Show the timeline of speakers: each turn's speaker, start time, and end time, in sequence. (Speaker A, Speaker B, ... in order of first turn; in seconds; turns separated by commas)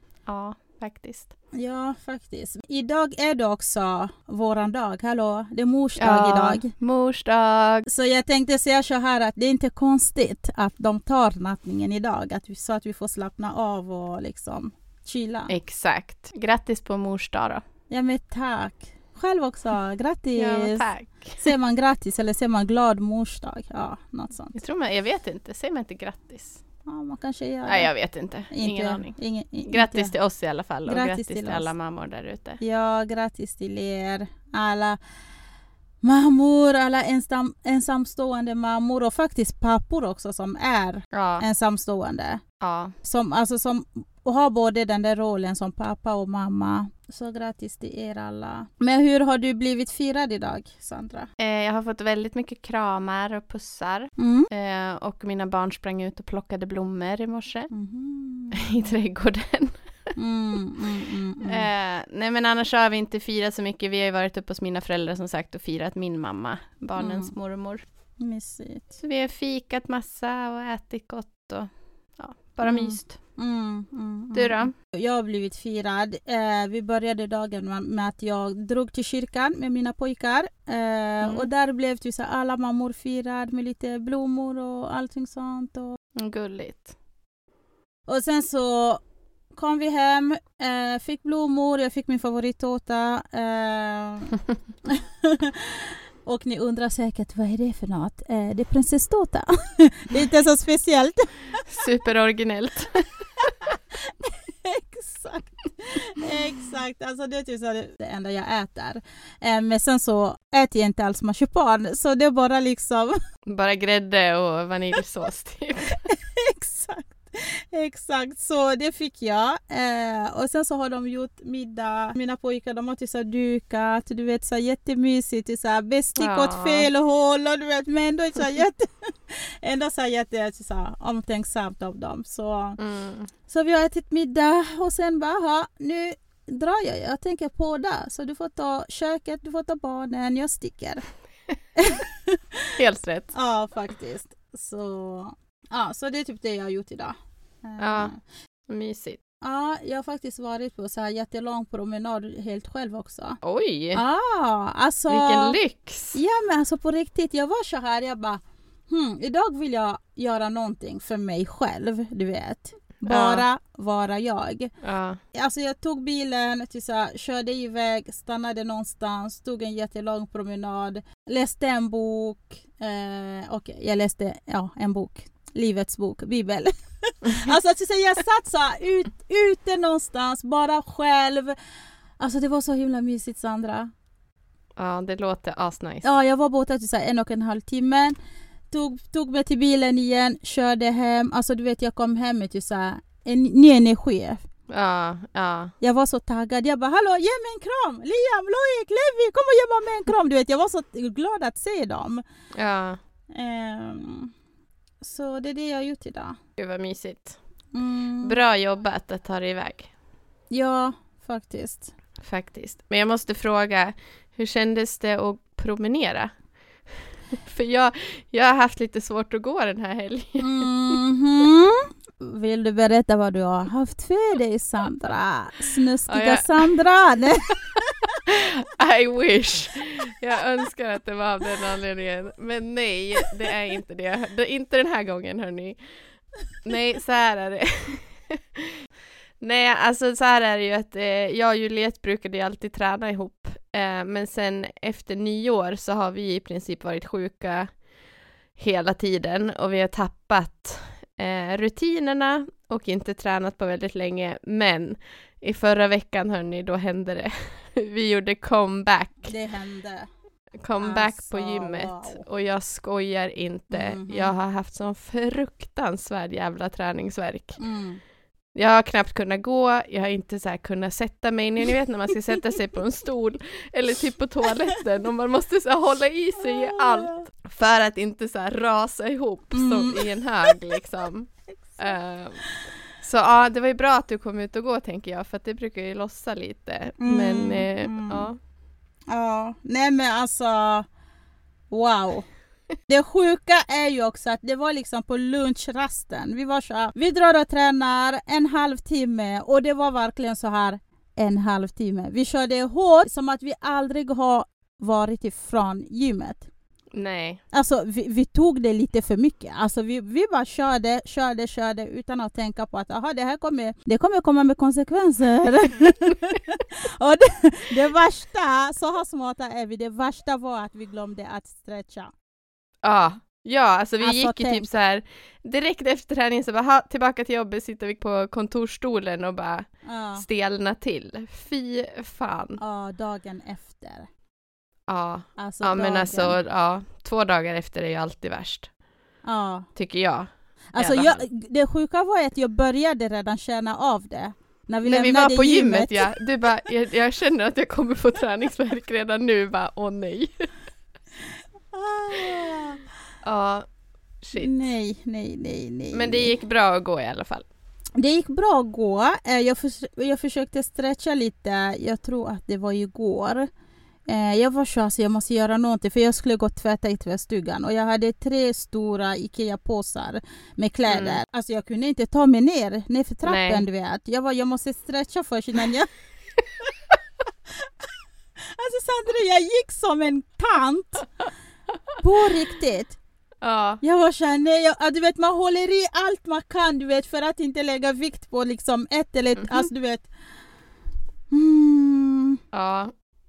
Speaker A: 0.3-1.3, Speaker B: 1.5-6.7, Speaker A: 6.0-7.9, Speaker B: 7.9-15.5, Speaker A: 15.5-17.6, Speaker B: 17.9-20.9, Speaker A: 20.4-21.5, Speaker B: 21.4-24.5, Speaker A: 24.5-26.6, Speaker B: 26.8-27.9, Speaker A: 27.6-32.6, Speaker B: 28.5-30.1, Speaker B: 30.9-31.7, Speaker B: 32.6-35.0, Speaker B: 36.0-42.4, Speaker A: 41.1-41.5, Speaker A: 42.6-43.0, Speaker B: 43.0-51.3, Speaker A: 51.4-57.7, Speaker B: 54.2-54.5, Speaker B: 57.7-58.7, Speaker A: 58.5-59.8, Speaker B: 60.2-61.7, Speaker A: 61.4-67.8, Speaker B: 67.0-67.3, Speaker B: 68.2-69.0, Speaker A: 69.0-73.2, Speaker B: 72.6-86.0, Speaker A: 74.3-74.7, Speaker A: 81.2-81.5, Speaker A: 86.2-86.9, Speaker B: 88.1-89.0, Speaker B: 89.5-101.6, Speaker A: 101.7-103.0, Speaker B: 104.2-113.2, Speaker A: 113.5-116.0, Speaker B: 116.0-132.8, Speaker A: 126.2-126.9, Speaker A: 132.8-133.3, Speaker B: 133.5-141.0, Speaker B: 141.8-142.4, Speaker A: 142.8-143.3, Speaker B: 143.3-148.2, Speaker A: 147.8-148.1, Speaker A: 148.7-149.2, Speaker B: 149.4-153.4, Speaker A: 153.4-154.0, Speaker B: 153.9-155.6, Speaker A: 155.1-156.2, Speaker B: 156.1-164.7, Speaker A: 163.1-163.4, Speaker A: 164.8-165.2, Speaker B: 165.3-181.5, Speaker B: 182.2-183.9, Speaker A: 184.8-186.0, Speaker B: 186.0-188.1, Speaker B: 188.7-194.4, Speaker A: 194.7-195.7, Speaker B: 195.8-202.2, Speaker A: 202.5-203.0, Speaker B: 203.3-204.3, Speaker B: 205.0-206.4, Speaker A: 206.6-207.4, Speaker B: 207.7-208.4, Speaker A: 208.2-209.9, Speaker B: 210.5-211.9, Speaker A: 212.2-216.3, Speaker A: 217.3-221.0, Speaker B: 220.4-227.5, Speaker A: 226.1-226.7, Speaker A: 228.2-235.8, Speaker A: 236.6-238.8, Speaker A: 239.4-247.7, Speaker A: 248.6-259.3, Speaker B: 259.2-260.1, Speaker A: 260.6-267.6, Speaker B: 260.8-262.2, Speaker B: 263.7-264.3, Speaker B: 267.6-268.0, Speaker A: 268.5-282.4, Speaker B: 276.4-277.3, Speaker B: 279.5-280.6, Speaker A: 283.0-288.4, Speaker B: 287.0-288.3, Speaker B: 289.1-290.9, Speaker B: 291.7-292.3, Speaker B: 292.9-306.5, Speaker A: 306.9-307.4, Speaker B: 307.5-322.1, Speaker A: 322.8-332.6, Speaker B: 324.0-324.7, Speaker B: 329.8-330.2, Speaker B: 332.6-334.1, Speaker A: 334.9-338.7, Speaker B: 335.4-336.4, Speaker B: 339.2-339.7, Speaker A: 339.8-341.3, Speaker B: 340.7-346.2, Speaker A: 344.8-350.5, Speaker B: 351.7-352.8, Speaker A: 353.2-353.6, Speaker A: 354.2-354.6, Speaker B: 354.3-356.3, Speaker A: 355.9-357.5, Speaker B: 358.0-363.5, Speaker B: 364.1-375.9, Speaker A: 370.9-371.2, Speaker A: 373.2-373.6, Speaker B: 378.5-381.1, Speaker B: 382.0-383.0, Speaker A: 383.4-383.8, Speaker B: 383.8-390.1, Speaker B: 391.3-392.4, Speaker A: 392.5-392.9